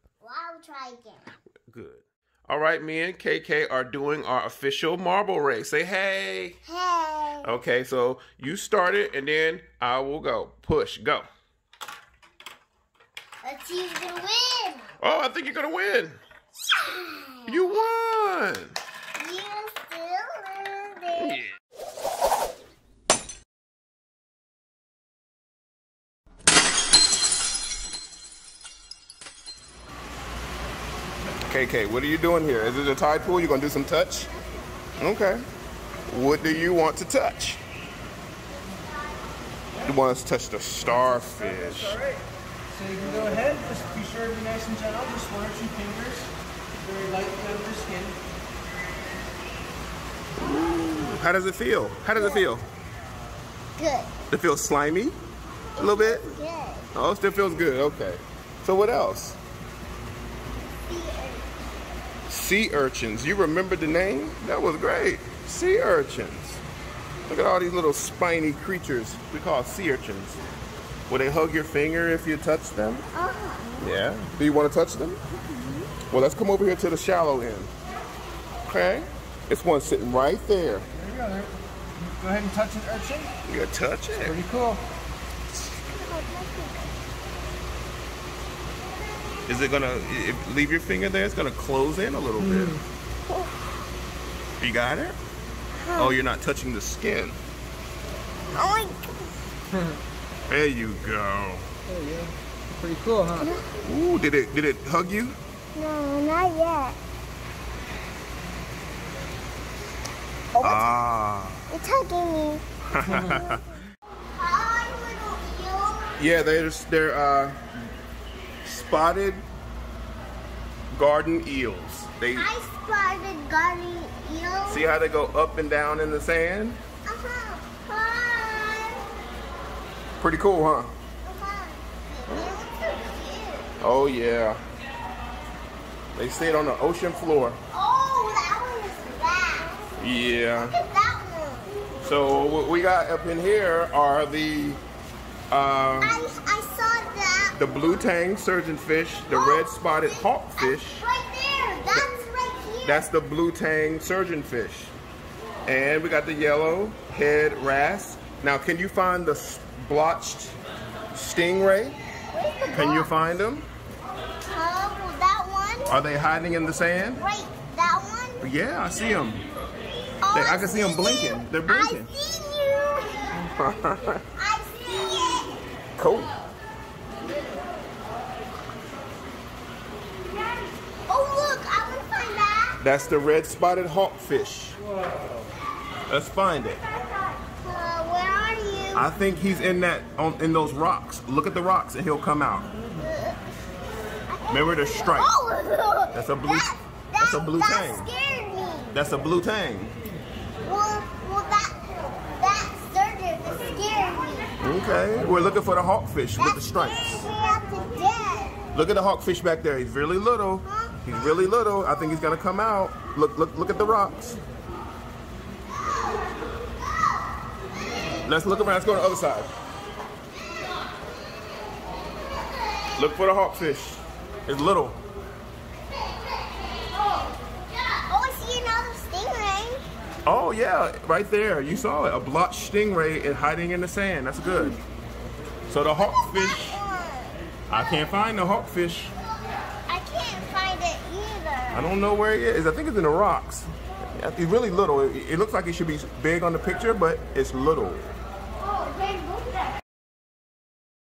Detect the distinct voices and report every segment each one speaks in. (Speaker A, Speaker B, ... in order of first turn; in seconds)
Speaker A: 0.2-1.3, 6.6-7.5, 13.4-14.9, 16.8-17.7, 19.1-21.5, 52.1-52.5, 53.8-54.1, 55.8-56.9, 60.7-61.5, 73.1-73.9, 75.5-75.9, 85.6-86.9, 95.8-96.1, 98.5-99.3, 103.3-103.8, 105.7-107.0, 110.5-110.9, 111.7-112.6, 114.3-116.2, 122.3-124.9, 127.0-129.0, 131.2-133.7, 137.7-139.9, 140.6-141.8, 146.0-147.6, 149.3-153.0, 162.3-163.1, 164.5-166.0, 167.2-168.5, 170.2-173.3, 174.4-175.5, 181.1-182.8, 187.4-189.1, 193.0-193.4, 194.3-198.9, 200.6-204.5, 206.3-208.7, 210.6-210.9, 215.8-216.3, 220.5-221.1, 226.9-229.8, 234.4-234.8, 236.0-237.4, 239.9-241.9, 248.6-249.6
Speaker B: 1.7-6.6, 7.4-11.3, 15.0-16.2, 17.5-18.8, 31.5-34.3, 35.0-35.4, 36.1-37.6, 39.8-42.0, 50.4-52.6, 54.3-55.2, 55.8-56.3, 56.9-59.4, 62.3-66.6, 67.3-70.4, 71.1-73.1, 73.8-75.2, 76.1-77.7, 78.6-80.9, 83.4-84.4, 89.5-92.8, 94.6-95.2, 96.0-97.4, 100.5-101.7, 103.8-105.4, 110.6-111.7, 112.9-113.6, 116.2-117.6, 118.6-119.4, 120.9-122.5, 124.7-126.8, 130.2-130.9, 133.8-134.6, 136.2-137.6, 140.0-140.8, 142.0-144.8, 145.5-146.2, 147.6-151.0, 152.8-154.9, 155.7-160.6, 161.1-162.0, 162.7-163.7, 165.9-167.2, 168.4-169.4, 170.3-172.1, 173.3-174.2, 176.0-176.3, 182.8-184.8, 186.1-186.8, 188.9-192.7, 194.5-195.3, 196.1-198.1, 198.9-199.9, 204.6-207.2, 208.7-214.4, 218.2-219.5, 222.9-225.0, 230.2-234.8, 235.7-236.8, 237.7-239.1, 241.7-248.1
Speaker C: 42.7-46.3, 46.8-48.2, 80.9-83.3, 84.2-84.8, 101.9-103.5